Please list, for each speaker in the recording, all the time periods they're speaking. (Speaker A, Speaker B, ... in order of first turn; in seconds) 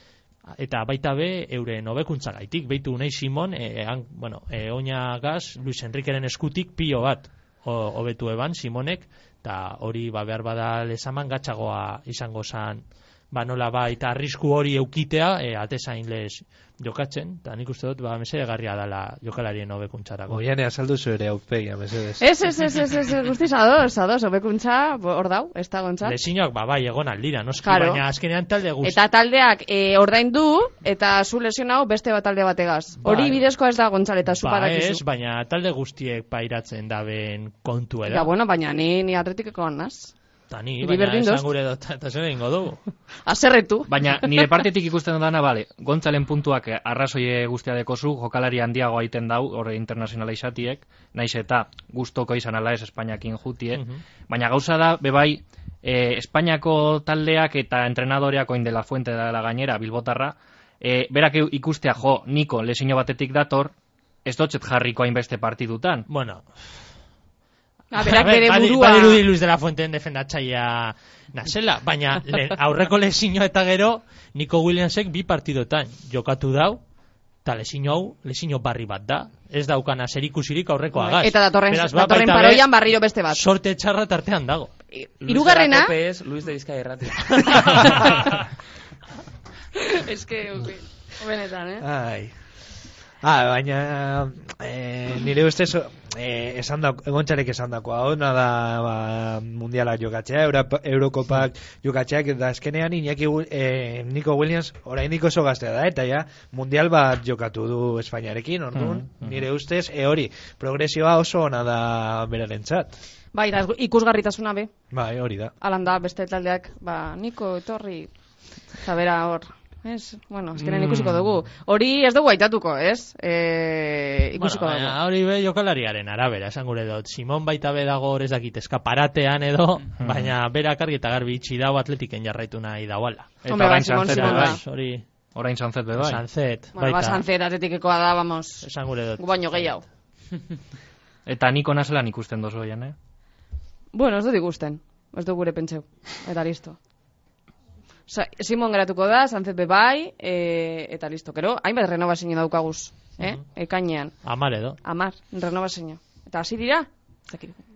Speaker A: 0.5-20.4, 26.0-29.0, 33.0-33.4, 34.4-38.3, 40.5-42.8, 53.7-54.0, 66.1-66.4, 68.0-76.8, 77.4-82.7, 83.3-84.7, 124.4-133.3, 134.0-135.0, 135.9-137.2, 138.6-139.7, 154.2-154.8
Speaker B: 20.3-22.2, 91.8-92.3, 93.2-113.0, 114.9-115.5
Speaker C: 22.2-26.2, 27.6-28.0, 28.8-35.0, 38.1-40.1, 40.8-41.5, 43.2-44.5, 67.9-69.2, 81.0-83.4, 84.9-85.9, 87.8-88.1, 89.7-91.8, 113.3-114.7, 115.6-118.1, 118.8-125.0, 133.5-134.6, 136.7-138.7, 139.2-139.8, 143.9-146.8, 148.1-154.2, 154.8-157.5
Speaker D: 43.9-63.7, 64.2-66.1, 108.8-109.4, 120.6-121.2, 130.0-130.3, 133.4-134.6, 135.3-136.2, 141.2-142.9
Speaker E: 85.2-88.4